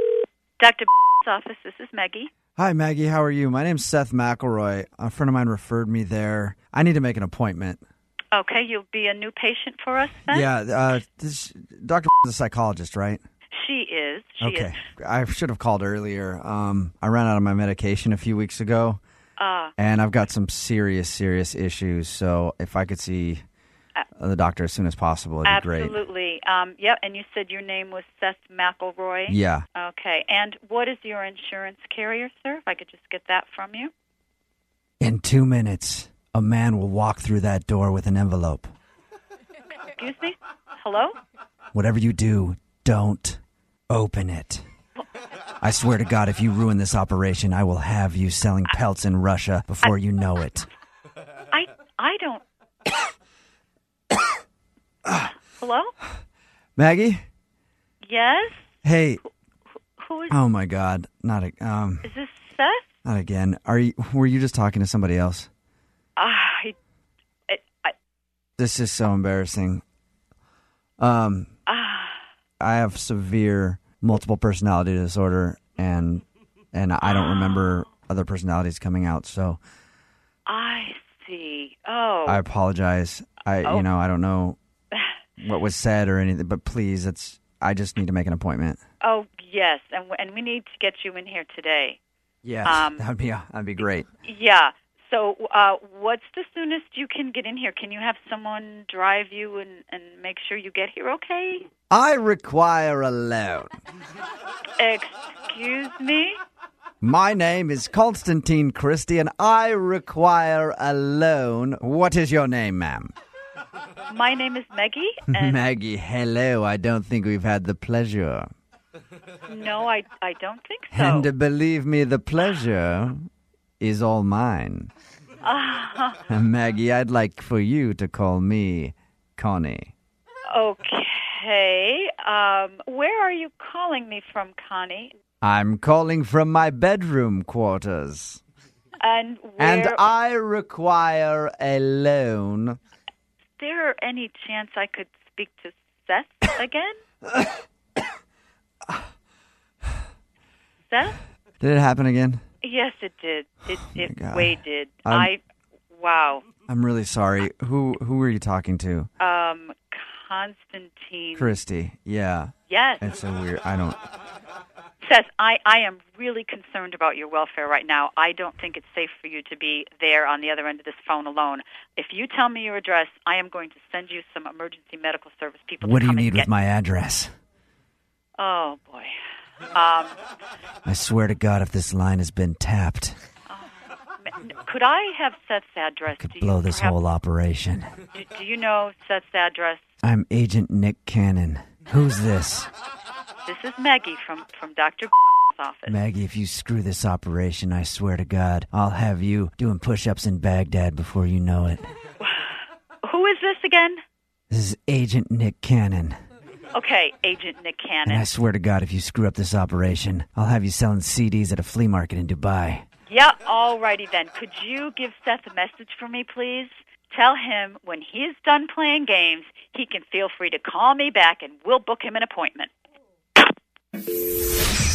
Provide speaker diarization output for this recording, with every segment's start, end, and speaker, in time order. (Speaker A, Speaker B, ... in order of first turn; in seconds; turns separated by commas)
Speaker A: 0.6-2.3, Speaker B: 2.5-7.8, Speaker A: 8.3-10.5, Speaker B: 10.3-13.2, Speaker A: 13.5-14.7, Speaker B: 14.4-19.0, Speaker A: 19.4-19.7, Speaker B: 19.8-23.4, Speaker B: 24.2-26.0, Speaker A: 25.4-33.9, Speaker B: 29.3-29.6, Speaker B: 35.0-38.7, Speaker A: 40.0-41.1, Speaker B: 41.7-44.6, Speaker B: 45.6-50.7, Speaker A: 51.5-52.5, Speaker A: 55.5-55.9, Speaker B: 56.8-57.2, Speaker A: 58.0-58.6, Speaker B: 58.8-59.2, Speaker A: 60.0-60.4, Speaker B: 60.3-62.1, Speaker A: 62.0-62.9, Speaker B: 63.0-65.5, Speaker A: 66.2-66.8, Speaker A: 67.5-67.9, Speaker B: 68.6-69.8, Speaker B: 71.0-71.5, Speaker A: 71.7-72.2, Speaker B: 72.6-79.6, Speaker A: 77.0-77.8, Speaker A: 80.5-82.4, Speaker B: 82.3-84.6, Speaker B: 85.4-88.8, Speaker A: 89.0-92.0, Speaker B: 92.4-94.1, Speaker A: 92.6-93.0, Speaker A: 94.2-101.7, Speaker B: 101.9-103.8, Speaker A: 104.8-106.4, Speaker B: 107.0-113.1, Speaker A: 114.1-115.6, Speaker B: 115.3-118.5, Speaker A: 119.5-121.3, Speaker B: 120.9-123.3, Speaker B: 123.8-124.9, Speaker A: 125.4-126.2, Speaker B: 126.3-129.9, Speaker A: 130.5-135.1, Speaker B: 135.4-138.4, Speaker A: 139.0-140.1, Speaker B: 139.6-142.8, Speaker A: 143.6-147.0, Speaker A: 150.9-151.2, Speaker B: 151.6-152.4, Speaker A: 152.6-156.4, Speaker B: 153.9-155.3, Speaker B: 156.7-159.1, Speaker A: 159.2-161.6, Speaker B: 161.3-164.0, Speaker A: 162.7-163.0, Speaker A: 165.0-176.5, Speaker B: 175.8-177.3, Speaker A: 178.4-179.1, Speaker A: 179.7-180.2, Speaker B: 180.8-183.2, Speaker A: 184.2-187.0, Speaker B: 186.2-187.9, Speaker A: 188.1-189.9, Speaker B: 190.0-192.7, Speaker A: 193.4-196.0, Speaker B: 195.8-201.9, Speaker A: 202.2-204.0, Speaker B: 204.5-206.2, Speaker A: 206.7-208.3, Speaker B: 208.1-212.8, Speaker A: 213.1-222.7